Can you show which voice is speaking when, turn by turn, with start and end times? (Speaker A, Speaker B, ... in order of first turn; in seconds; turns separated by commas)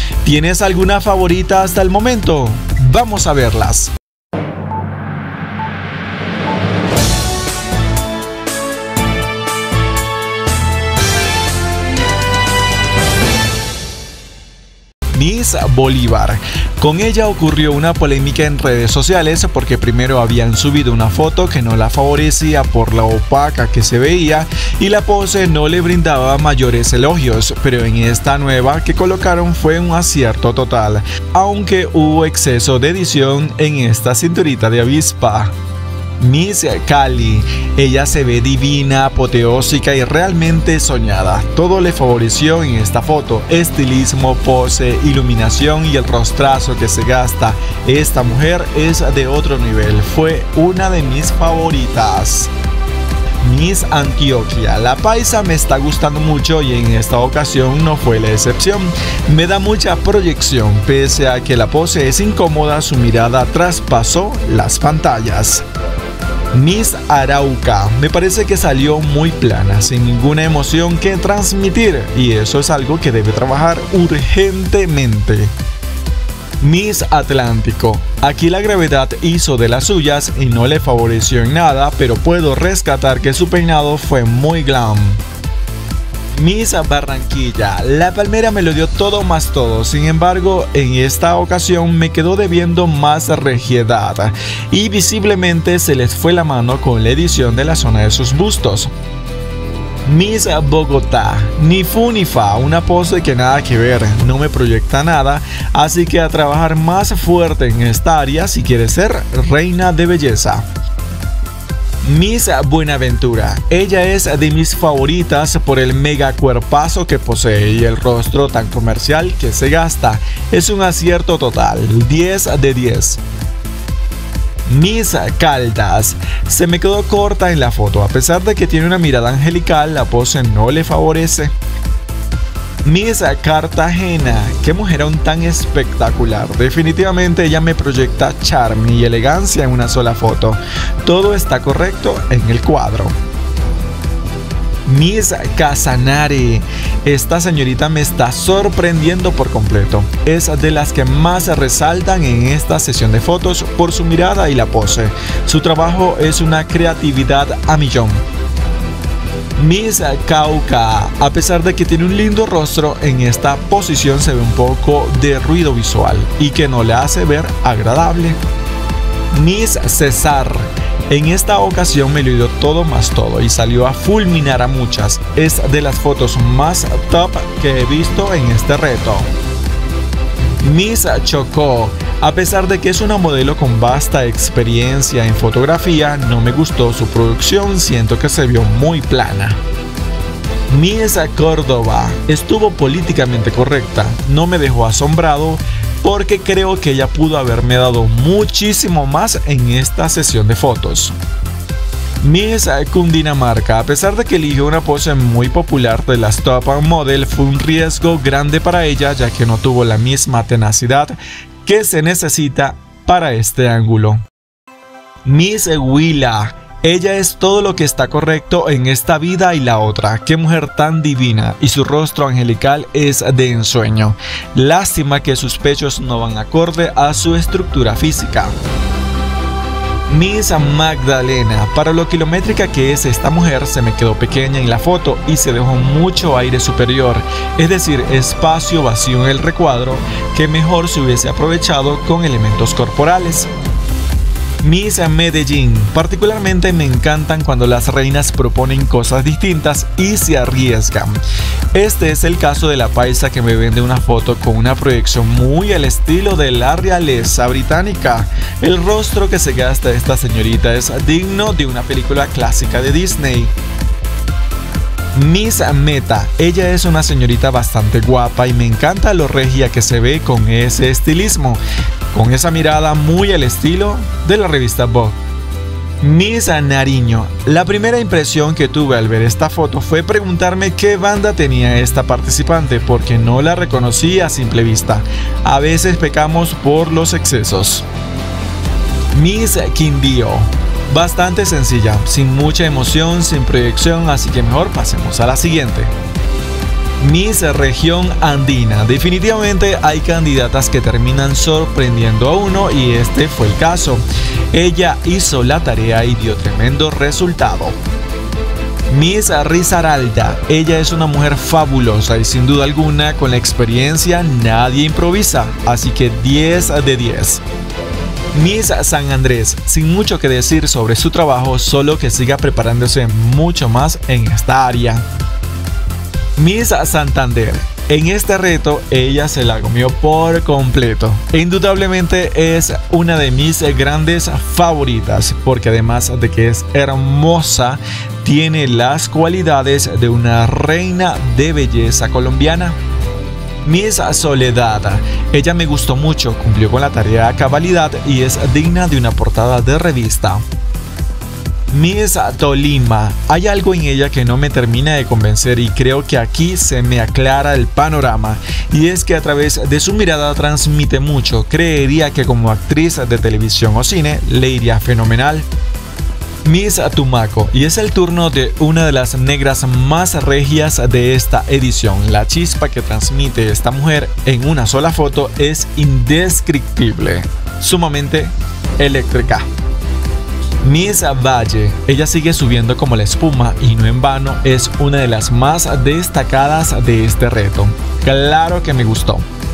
Speaker A: 0.2-3.9, Speaker A: 15.1-35.5, Speaker A: 36.2-52.5, Speaker A: 53.4-65.7, Speaker A: 66.5-75.5, Speaker A: 76.6-85.2, Speaker A: 86.3-98.9, Speaker A: 100.0-110.7, Speaker A: 112.0-123.2, Speaker A: 124.7-131.6, Speaker A: 132.8-143.2, Speaker A: 144.9-158.2, Speaker A: 159.6-168.4, Speaker A: 169.3-179.3, Speaker A: 180.6-189.6, Speaker A: 190.7-201.2, Speaker A: 202.2-214.2, Speaker A: 215.2-228.6, Speaker A: 230.1-243.5, Speaker A: 244.6-251.2, Speaker A: 251.7-263.5, Speaker A: 265.1-275.2, Speaker A: 276.0-287.9, Speaker A: 289.1-295.9, Speaker A: 297.0-307.8, Speaker A: 308.9-317.4, Speaker A: 318.3-325.1, Speaker A: 326.4-342.8, Speaker A: 343.6-350.4, Speaker A: 351.7-365.5, Speaker A: 366.4-379.5, Speaker A: 380.6-389.3